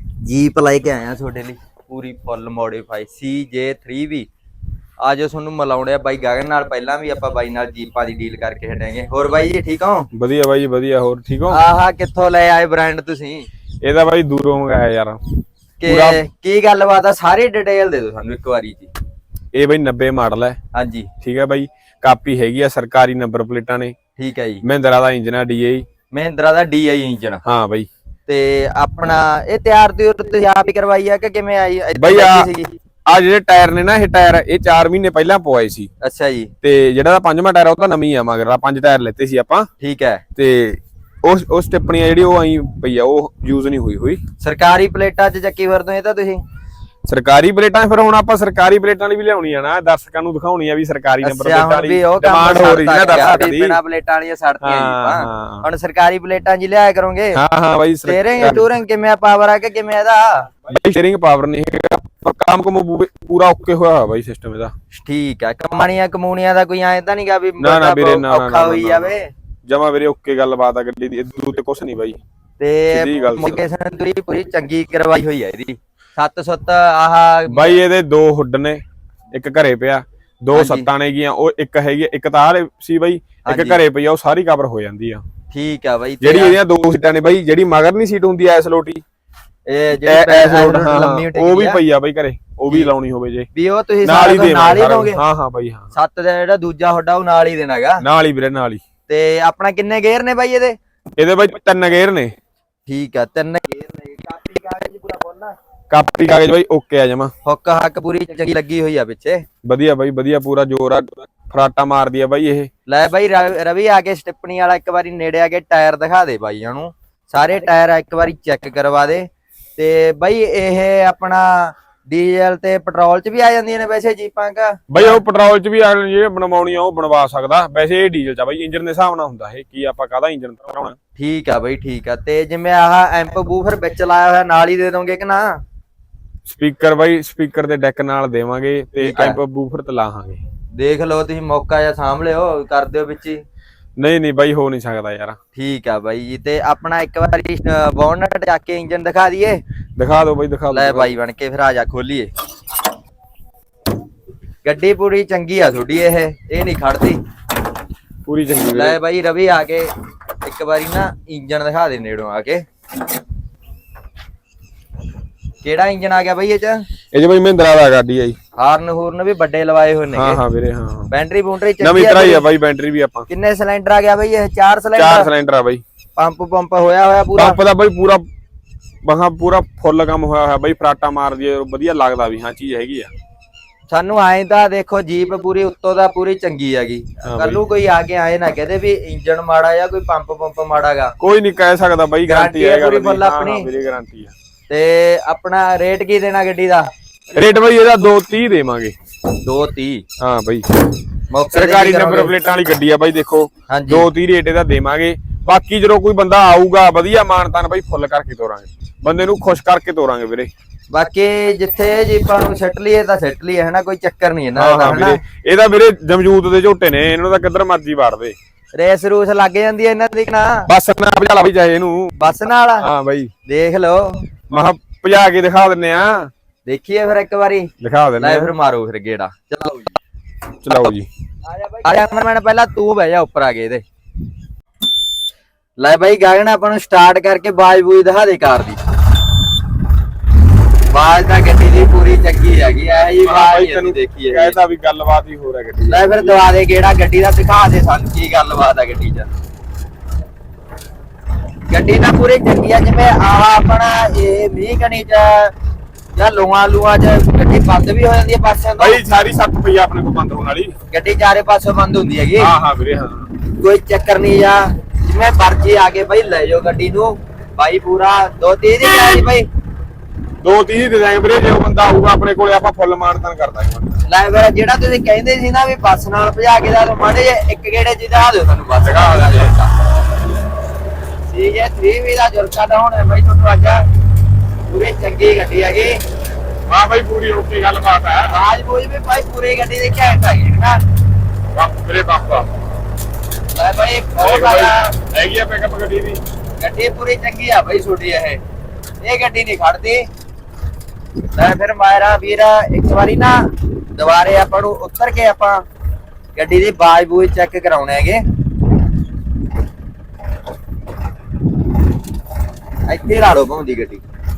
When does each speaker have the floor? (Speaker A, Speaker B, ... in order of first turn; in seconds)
Speaker A: 0.2-4.3, 5.0-10.1, 11.5-13.5, 15.8-18.9, 20.7-21.1, 24.2-24.6, 26.1-27.4, 28.3-32.8, 36.0-36.5, 39.8-40.2, 44.4-46.4, 51.2-57.4, 58.0-60.5, 64.9-69.3, 72.6-77.8, 80.5-80.9, 83.5-83.8, 85.5-86.6, 89.7-91.8, 93.5-95.2, 95.9-98.0, 99.1-100.8, 102.9-105.5, 107.5-109.5, 112.9-125.2, 131.2-135.6, 139.0-139.4, 140.8-143.4, 145.6-149.6, 150.7-152.3, 154.6-157.2, 158.7-159.9, 160.4-162.6, 165.6-166.8, 168.6-170.4, 171.1-172.4, 173.3-175.3, 176.2-177.6, 183.9-191.2, 192.3-193.7, 194.7-196.9, 199.4-200.1, 201.3-202.3, 203.7-204.1, 210.9-215.2, 218.8-220.7, 222.2-222.9, 223.5-224.2, 226.7-230.0, 231.5-233.8, 235.8-238.8, 240.9-244.6, 245.9-249.3, 251.7-255.5, 256.1-259.0, 260.9-262.5, 263.5-269.5, 274.1-279.7, 281.3-283.8, 284.7-286.0, 288.2-290.8, 293.5-294.9, 296.6-298.4, 299.0-300.1, 301.3-305.6, 306.4-308.2, 312.9-314.0
Speaker B: 10.1-11.6, 13.8-15.2, 15.9-16.2, 19.5-20.6, 21.2-23.9, 24.6-25.9, 27.4-27.9, 32.0-32.5, 33.1-35.9, 36.6-39.7, 40.4-44.2, 47.0-53.8, 54.6-55.7, 57.3-58.7, 60.7-64.7, 67.6-69.1, 69.7-72.2, 72.9-73.6, 77.5-78.8, 79.3-85.2, 86.2-89.0, 90.0-93.5, 94.0-95.9, 98.0-98.8, 101.2-102.3, 105.9-107.3, 109.6-112.7, 124.9-131.0, 136.5-140.4, 144.0-145.4, 150.0-151.1, 158.3-159.0, 167.1-168.4, 170.2-171.1, 171.8-173.3, 175.0-175.8, 177.4-178.2, 179.0-183.1, 187.2-187.6, 191.2-194.3, 197.3-198.9, 200.2-200.7, 201.5-210.5, 214.6-218.4, 220.7-222.2, 222.8-223.3, 224.5-226.3, 227.8-228.5, 230.6-231.1, 243.2-246.4, 258.8-260.8, 262.4-263.3, 268.8-269.2, 270.4-273.9, 278.8-279.6, 286.7-288.3, 291.5-292.5, 294.2-296.2